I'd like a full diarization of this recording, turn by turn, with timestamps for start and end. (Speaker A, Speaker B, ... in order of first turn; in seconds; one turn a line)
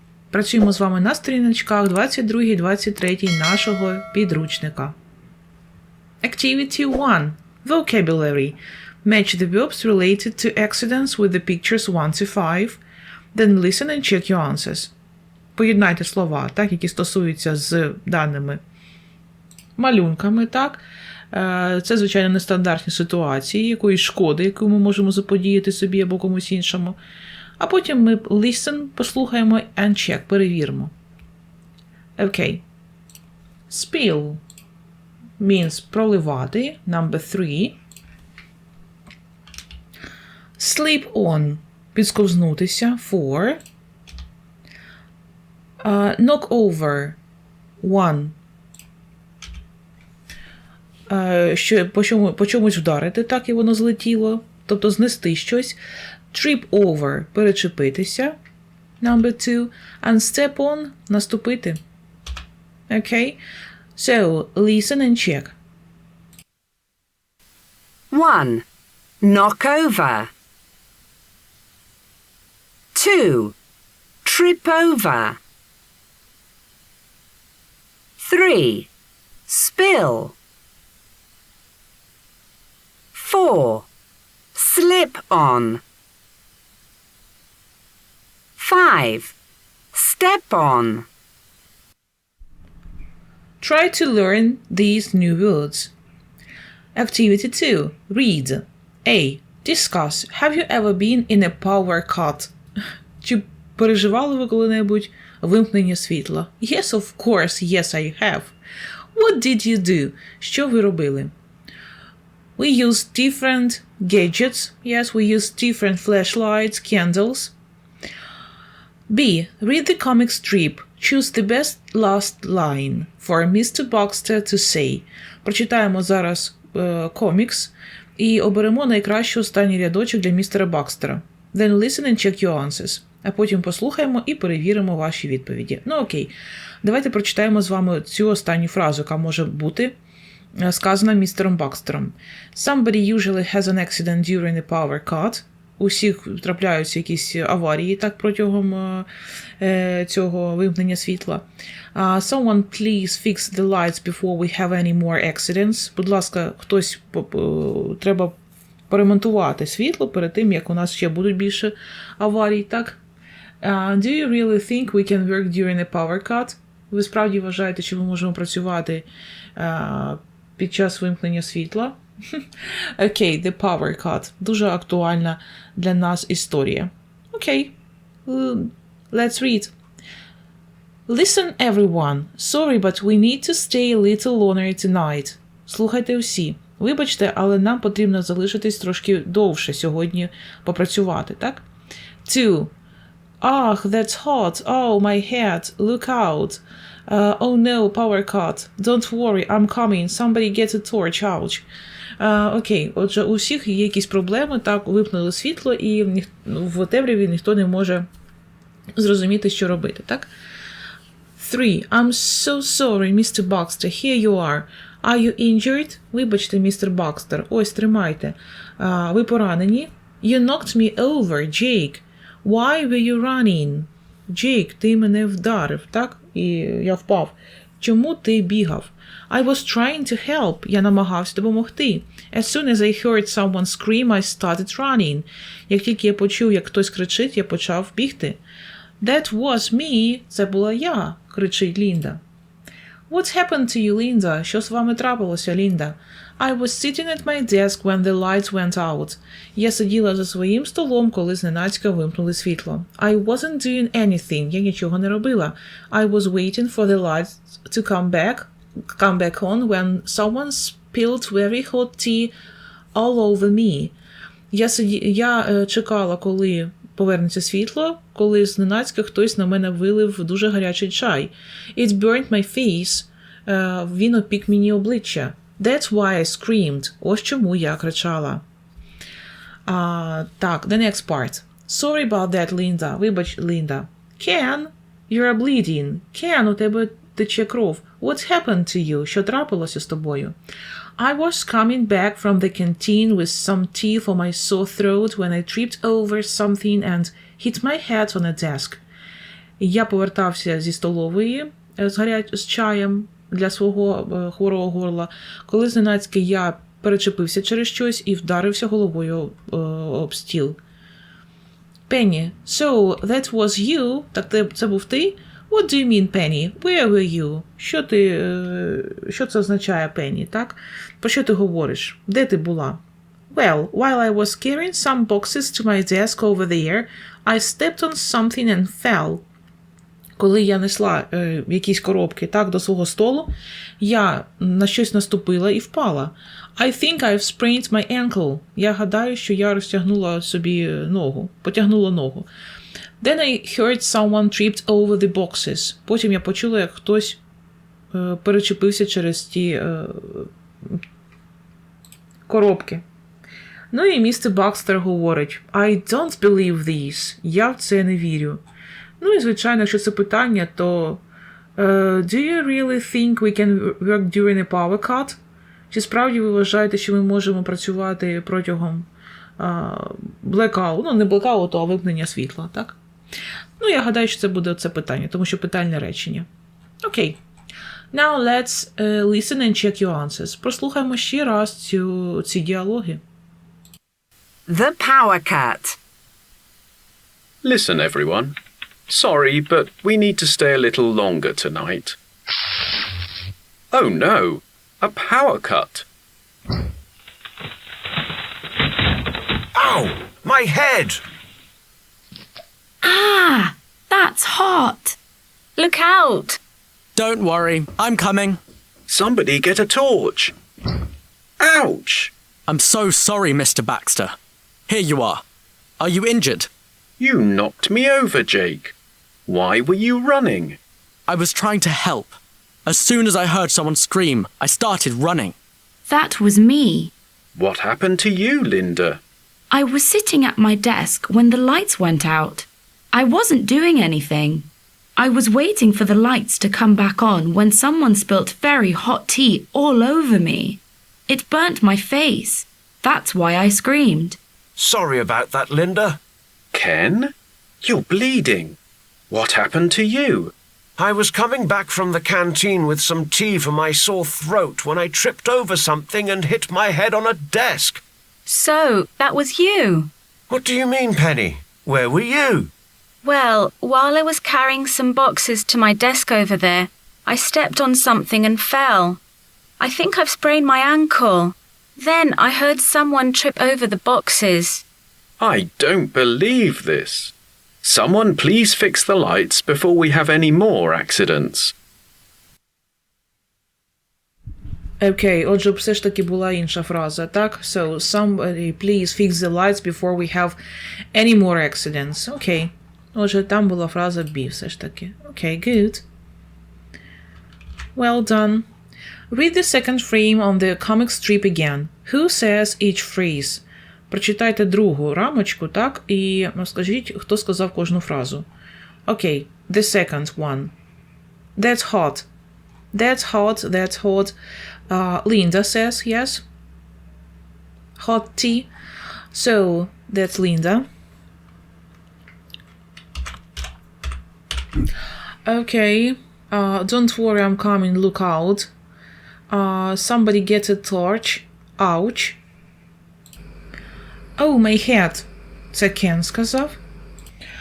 Speaker A: 0.3-4.9
Speaker A: 6.2-12.8
Speaker A: 13.3-14.9
Speaker A: 15.6-18.6
Speaker A: 19.8-27.0
Speaker A: 27.6-30.9
Speaker A: 32.2-32.6
Speaker A: 33.7-34.4
Speaker A: 35.4-37.8
Speaker A: 40.6-43.6
Speaker A: 45.8-47.2
Speaker A: 47.8-48.4
Speaker A: 51.1-55.8
Speaker A: 56.3-58.4
Speaker A: 59.0-61.8
Speaker A: 62.9-63.4
Speaker A: 64.0-65.5
Speaker B: 68.1-68.7
Speaker B: 69.2-70.3
Speaker B: 73.0-73.5
Speaker B: 74.2-75.4
Speaker B: 78.2-78.9
Speaker B: 79.5-80.3
Speaker B: 83.1-83.9
Speaker B: 84.6-85.8
Speaker B: 88.6-89.3
Speaker B: 89.9-91.1
Speaker A: 93.6-95.9
Speaker A: 97.0-102.5
Speaker A: 103.2-108.5
Speaker A: 109.2-111.3
Speaker A: 112.6-117.5
Speaker A: 119.1-139.9
Speaker A: 140.6-149.1
Speaker A: 149.6-158.3
Speaker A: 158.9-163.0
Speaker A: 163.6-172.4
Speaker A: 173.0-177.7
Speaker A: 178.3-179.7
Speaker A: 181.1-191.7
Speaker A: 192.2-192.7
Speaker A: 193.4-201.7
Speaker A: 202.2-208.1
Speaker A: 209.0-210.3
Speaker A: 211.4-238.4
Speaker A: 239.0-242.2
Speaker A: 243.1-262.3
Speaker A: 262.9-263.9
Speaker A: 264.5-278.4
Speaker A: 279.7-290.4
Speaker A: 291.0-298.8
Speaker A: 299.6-310.6
Speaker A: 311.9-329.2
Speaker A: 330.2-342.3
Speaker A: 343.0-347.2
Speaker A: 347.9-350.8
Speaker A: 352.3-352.8
Speaker A: 353.7-358.4
Speaker A: 359.0-361.0
Speaker A: 361.6-365.2
Speaker A: 365.7-368.9
Speaker A: 369.4-372.8
Speaker A: 373.6-376.3
Speaker A: 376.8-377.2
Speaker A: 377.9-383.0
Speaker B: 384.5-385.8
Speaker C: 387.4-388.4
Speaker C: 388.9-392.0
Speaker C: 393.7-395.9
Speaker D: 399.6-401.0
Speaker E: 402.8-405.0
Speaker F: 405.6-406.4
Speaker G: 407.0-408.4
Speaker C: 408.9-410.3
Speaker C: 411.4-412.1
Speaker G: 412.5-414.2
Speaker G: 414.7-415.2
Speaker G: 415.8-416.5
Speaker C: 417.0-418.7
Speaker C: 419.3-420.6
Speaker G: 421.1-425.4
Speaker E: 425.9-426.9
Speaker C: 427.4-429.0
Speaker E: 429.5-444.2
Speaker D: 444.6-446.0
Speaker C: 446.5-448.6
Speaker C: 449.1-450.3
Speaker D: 450.8-457.8
Speaker F: 458.3-459.9
Speaker D: 460.3-462.5
Speaker F: 463.0-469.0
Speaker F: 469.6-474.6
Speaker C: 475.2-481.5
Speaker A: 484.8-490.4
Speaker A: 490.9-495.8
Speaker A: 497.8-498.5
Speaker A: 499.1-508.3
Speaker A: 508.9-510.5
Speaker A: 511.4-512.1
Speaker A: 512.7-514.1
Speaker A: 514.7-516.2
Speaker A: 517.8-518.5
Speaker A: 519.1-520.7
Speaker A: 525.2-528.5
Speaker A: 529.3-532.2
Speaker A: 534.2-536.6